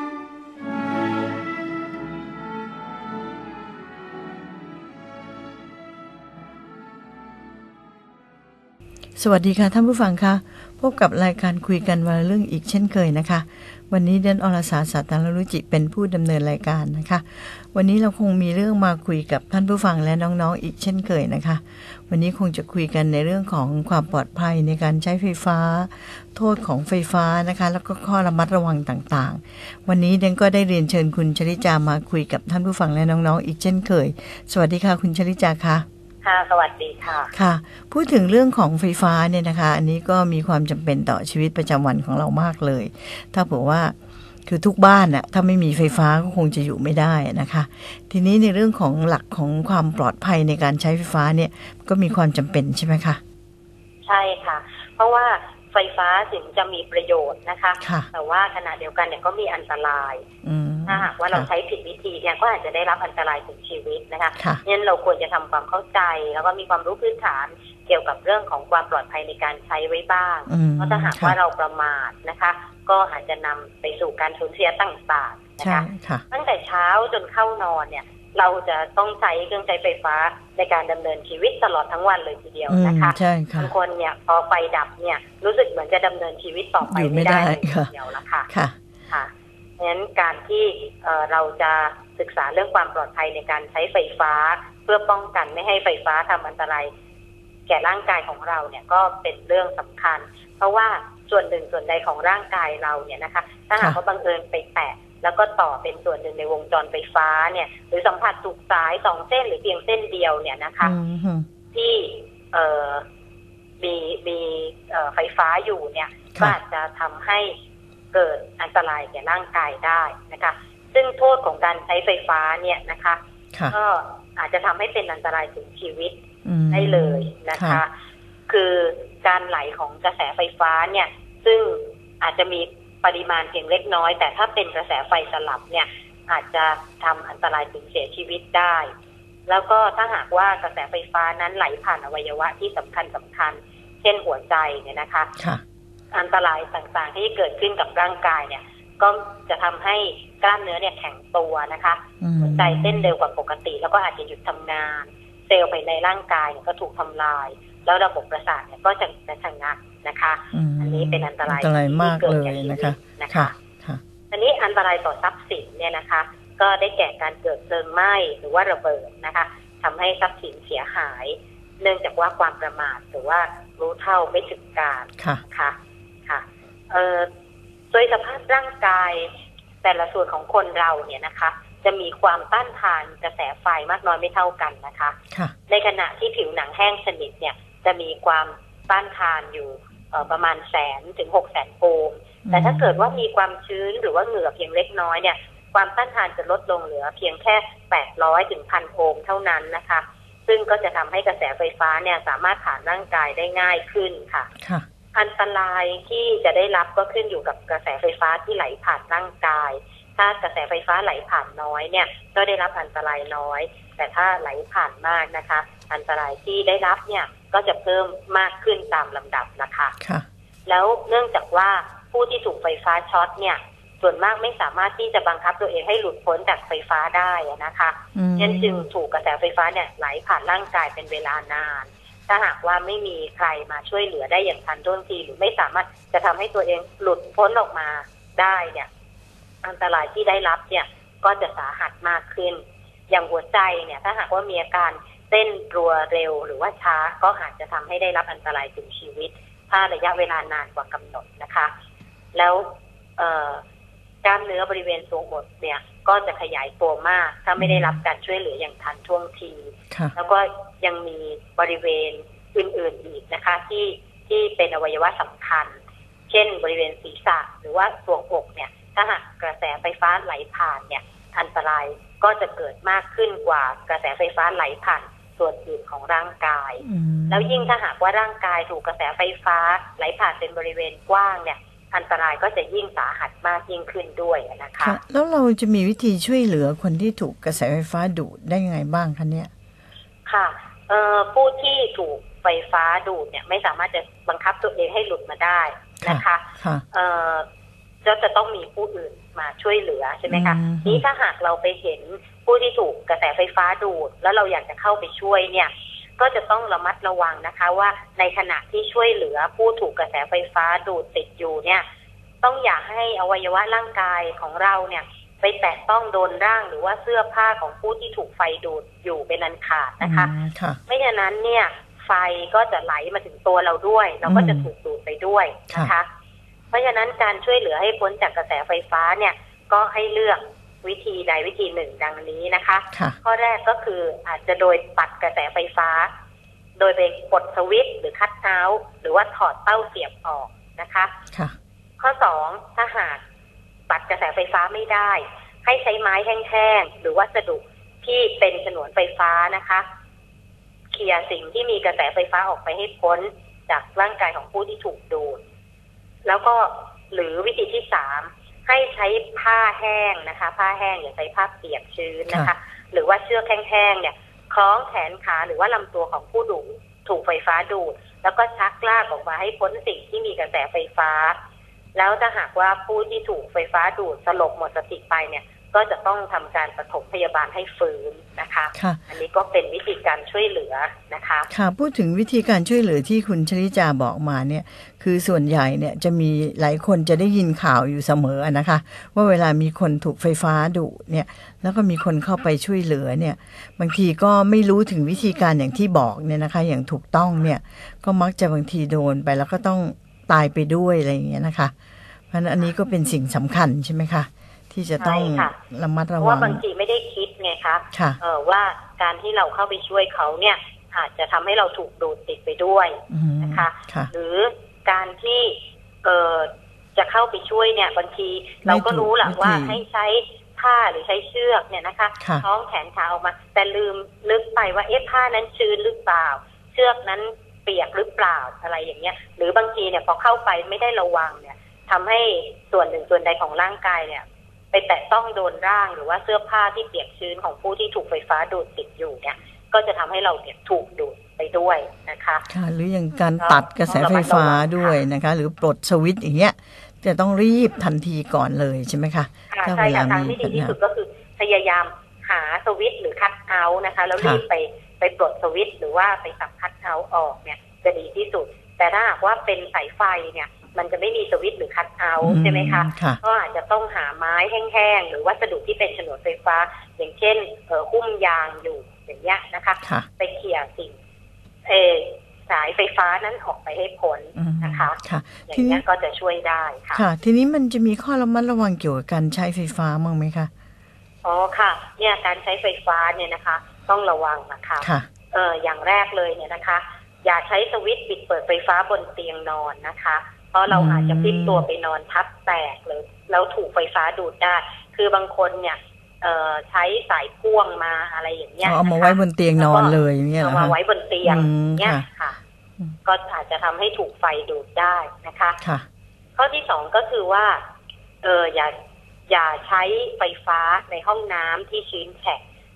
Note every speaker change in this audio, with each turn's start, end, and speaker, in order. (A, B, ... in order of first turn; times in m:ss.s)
0:09.2-0:35.8 A
0:36.2-0:37.3 B
0:37.3-0:43.9 A
0:44.5-0:53.2 A
0:54.0-1:00.2 B
0:57.8-0:58.1 A
1:00.4-1:01.5 A
1:00.8-1:28.5 B
1:04.4-1:04.6 A
1:10.5-1:11.4 A
1:15.6-1:16.2 A
1:22.7-1:23.7 A
1:26.8-1:27.9 A
1:28.5-1:28.7 A
1:29.1-1:36.9 B
1:37.7-1:50.9 B
1:50.8-1:51.4 A
1:51.7-1:53.0 B
1:53.8-1:57.5 B
1:58.1-2:06.2 B
2:06.4-2:07.8 A
2:06.7-2:07.9 B
2:08.5-2:18.9 B
2:19.5-2:25.3 B
2:26.1-2:43.5 B
2:32.2-2:33.1 A
2:40.5-2:44.0 A
2:44.3-2:55.7 B
2:56.2-2:57.3 B
2:57.9-3:05.2 B
3:05.7-3:24.5 B
3:12.4-3:13.0 A
3:25.1-3:40.0 B
3:40.6-3:58.9 B
3:48.1-3:48.8 A
3:59.6-4:11.7 B
4:12.3-4:13.6 B
4:14.2-4:25.7 B
4:17.6-4:18.0 A
4:26.3-4:45.0 B
4:36.8-4:37.7 A
4:44.8-4:49.5 A
4:50.2-4:57.4 B
4:56.0-4:56.8 A
4:58.0-5:11.8 B
5:00.3-5:01.0 A
5:12.4-5:20.3 B
5:20.0-5:20.8 A
5:20.9-5:26.1 B
5:24.3-5:24.7 A
5:26.7-5:36.1 B
5:36.8-5:41.1 B
5:42.0-5:43.2 B
5:43.9-5:49.8 B
5:50.9-5:55.4 B
5:56.2-6:11.3 B
6:11.9-6:21.5 B
6:21.5-6:41.7 A
6:42.3-6:46.6 A
6:45.0-6:45.5 B
6:46.2-7:22.5 B
6:47.9-6:48.2 A
6:53.1-6:54.1 A
6:58.6-6:59.8 A
7:02.2-7:02.4 A
7:22.5-7:30.8 A
7:23.4-7:25.0 B
7:29.5-7:51.0 B
7:34.2-7:34.4 A
7:42.2-7:43.2 A
7:49.8-7:50.1 A
7:51.6-7:57.0 B
7:54.4-7:55.8 A
7:56.9-8:00.5 A
8:01.2-8:22.4 B
8:04.8-8:05.1 A
8:10.7-8:11.6 A
8:18.6-8:22.0 A
8:23.0-8:25.6 B
8:26.4-8:27.6 B
8:28.2-8:28.7 B
8:29.3-8:32.4 B